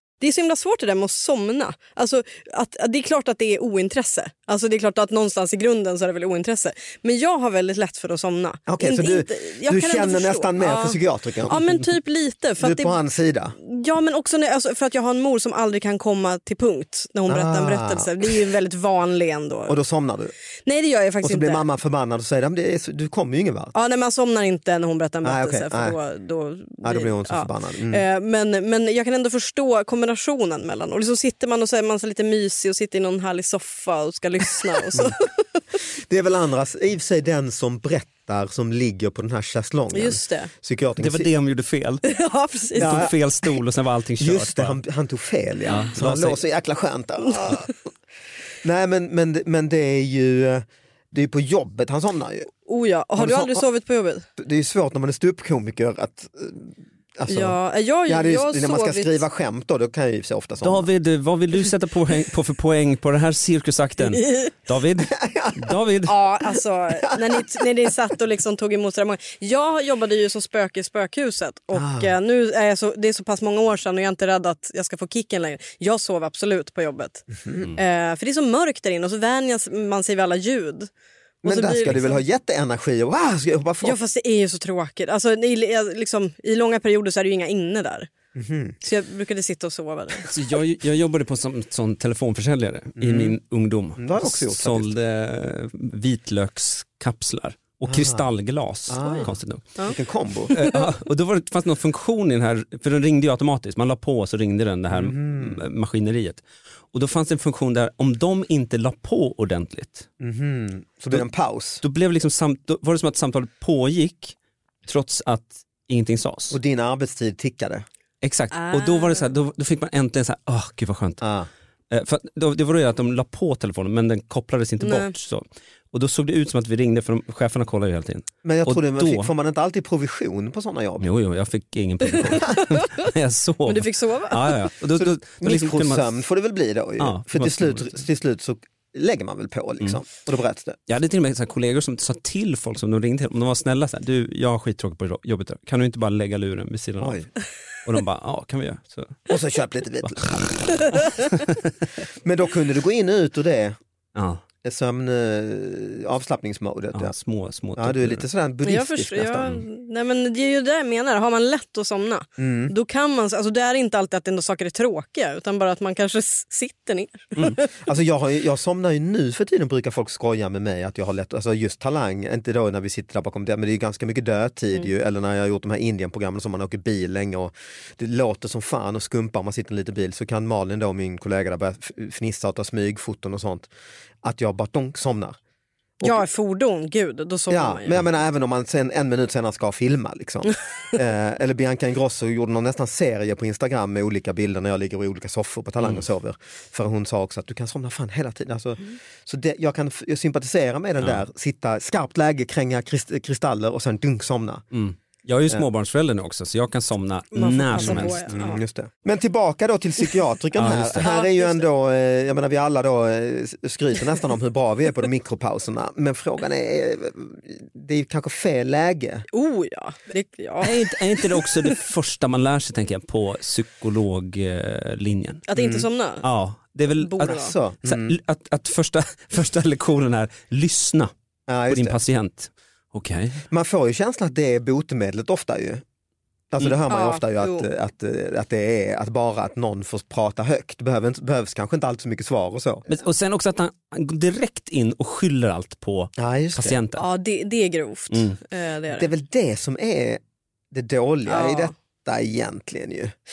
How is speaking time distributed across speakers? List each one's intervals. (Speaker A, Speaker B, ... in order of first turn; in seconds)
Speaker A: 0.2-13.0, 13.6-19.8, 20.7-21.6, 23.7-35.3, 39.9-40.5, 42.0-43.1, 52.7-54.2, 57.3-59.2, 64.1-64.5, 66.1-80.9, 81.4-82.2, 83.8-88.1, 88.8-90.3, 99.0-100.0, 118.5-119.3, 124.8-125.1, 132.5-133.1, 133.7-134.6, 158.7-167.7, 186.0-188.0, 207.3-208.6, 211.0-211.7, 219.3-220.8, 225.5-226.2, 227.0-227.5, 236.9-237.7, 247.0-249.1, 251.2-251.7
Speaker B: 8.7-11.7, 12.6-13.6, 17.3-18.4, 19.7-20.3, 21.2-23.7, 25.2-26.0, 26.8-28.0, 36.0-41.3, 42.8-43.1, 44.2-47.7, 48.6-52.5, 53.2-53.6, 54.4-60.9, 65.1-65.8, 67.0-67.7, 71.8-72.1, 77.3-77.7, 81.4-84.0, 88.3-88.8, 93.0-93.4, 94.0-94.9, 97.9-98.2, 98.9-99.3, 99.9-100.5, 104.9-105.6, 110.2-111.8, 116.5-117.8, 121.2-121.5, 128.4-131.1, 135.0-140.8, 147.0-147.3, 149.3-150.9, 152.2-153.8, 154.6-157.2, 157.8-159.6, 162.4-162.7, 167.8-183.7, 184.2-185.4, 187.5-204.6, 207.8-219.2, 225.6-225.9, 227.2-228.1, 231.5-232.0, 233.5-235.8, 236.5-242.9, 246.2-246.8, 248.9-250.2, 250.7-253.1
Speaker C: 41.0-42.0, 42.8-44.8, 45.7-46.4, 60.6-66.2, 90.2-99.7, 100.5-110.1, 111.8-114.4, 114.9-116.6, 118.2-121.2, 121.9-129.3, 131.0-136.1, 137.0-138.0, 140.9-147.3, 147.8-149.2, 150.9-151.7, 154.2-154.4, 156.9-158.2, 204.7-208.3, 210.6-211.1, 220.6-225.4, 226.2-231.1, 231.7-233.4, 242.9-247.1, 248.1-248.4